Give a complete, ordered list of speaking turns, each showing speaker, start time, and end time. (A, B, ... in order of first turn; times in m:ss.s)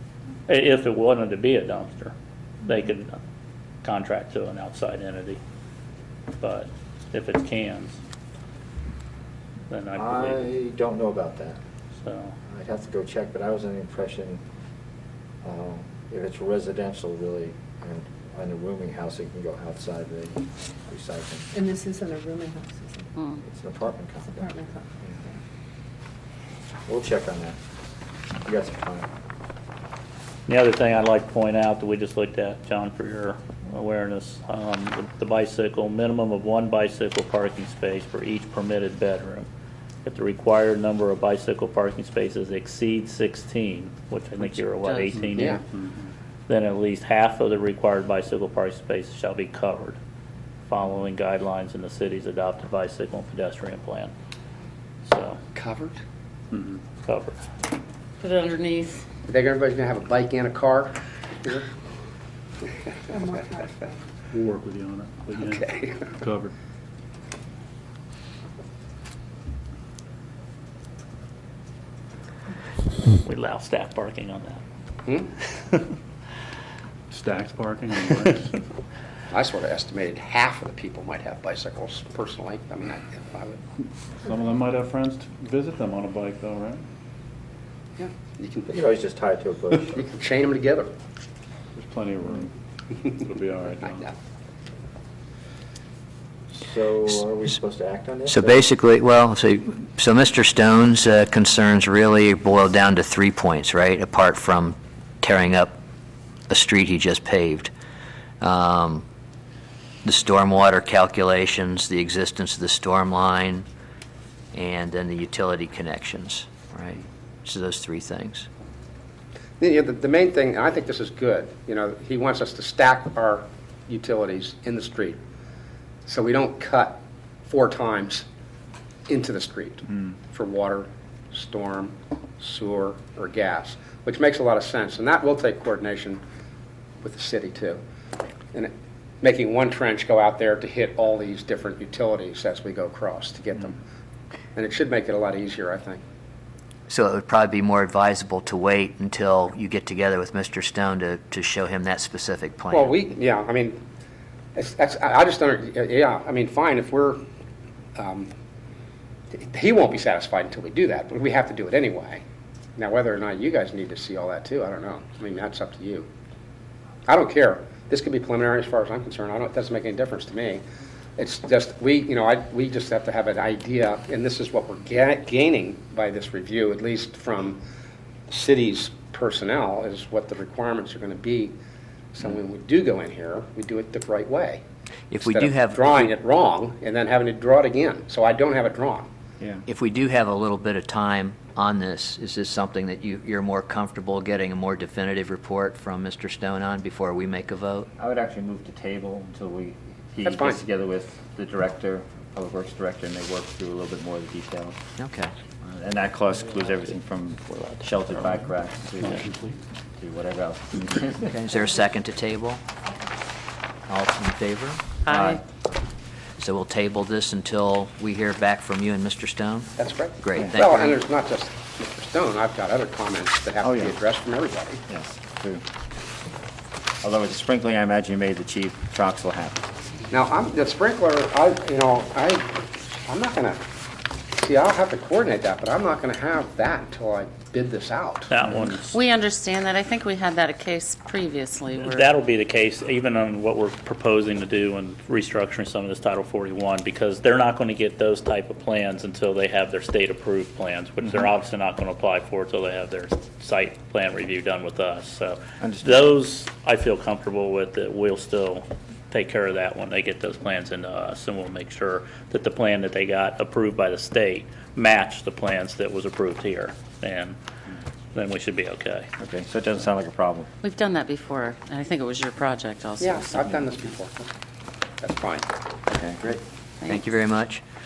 0:00.5-0:02.1 A
0:02.6-0:03.2 A
0:03.8-0:05.4 A
0:06.4-0:08.0 A
0:09.7-0:10.5 A
0:09.9-0:11.6 B
0:12.0-0:12.3 A
0:12.5-0:14.4 B
0:15.4-0:21.5 B
0:21.5-0:23.1 C
0:23.4-0:25.2 B
0:24.3-0:24.9 C
0:26.9-0:27.6 B
0:28.4-0:29.1 B
0:30.5-0:39.5 A
0:40.0-0:45.6 A
0:44.6-0:45.1 D
0:45.4-0:45.6 E
0:46.5-0:50.0 A
0:50.7-0:54.1 A
0:55.0-0:55.4 A
0:55.6-0:56.0 E
0:56.5-0:56.8 F
0:57.0-0:57.4 A
0:58.2-0:59.0 D
0:59.3-1:01.7 E
1:03.1-1:03.9 C
1:04.3-1:05.6 F
1:05.4-1:06.1 E
1:06.2-1:06.5 F
1:13.2-1:14.6 A
1:17.1-1:18.5 F
1:19.3-1:23.6 E
1:24.2-1:26.8 F
1:28.0-1:28.8 E
1:28.7-1:30.0 B
1:29.7-1:30.9 E
1:31.8-1:32.5 F
1:33.2-1:34.0 F
1:36.6-1:38.7 B
1:38.3-1:45.8 G
1:46.5-1:47.7 G
1:48.4-1:49.0 G
1:50.0-1:53.6 G
1:54.5-1:58.5 G
1:59.6-2:05.2 E
2:06.1-2:08.3 E
2:09.1-2:16.2 E
2:17.0-2:17.8 E
2:18.5-2:23.8 E
2:24.6-2:26.0 E
2:26.9-2:32.9 G
2:32.7-2:33.8 E
2:34.6-2:37.2 E
2:38.0-2:38.3 E
2:39.4-2:42.2 E
2:42.8-2:46.1 E
2:47.1-2:50.6 E
2:51.2-2:57.6 E
2:58.3-3:01.6 E
3:02.2-3:04.6 E
3:05.1-3:06.1 G
3:05.2-3:09.1 E
3:09.7-3:17.9 G
3:18.0-3:24.8 H
3:20.2-3:20.6 E
3:25.0-3:25.3 G
3:25.6-3:29.3 H
3:26.6-3:26.9 A
3:27.5-3:28.3 A
3:30.0-3:31.4 H
3:31.3-3:32.6 G
3:33.9-3:35.0 G
3:35.1-3:35.4 D
3:35.1-3:35.4 H
3:36.4-3:41.0 G
3:39.8-3:44.8 E
3:44.9-3:45.6 B
3:47.0-3:49.6 B
3:47.3-3:48.5 H
3:50.1-3:53.6 E
3:54.4-3:58.3 E
3:58.3-3:59.0 A
3:58.9-4:02.1 D
4:01.8-4:27.4 A
4:15.6-4:16.2 B
4:28.2-4:29.1 A
4:29.2-4:30.5 H
4:30.6-4:33.6 D
4:33.0-4:34.3 E
4:35.0-4:35.5 E
4:35.9-4:36.2 H
4:36.2-4:37.6 G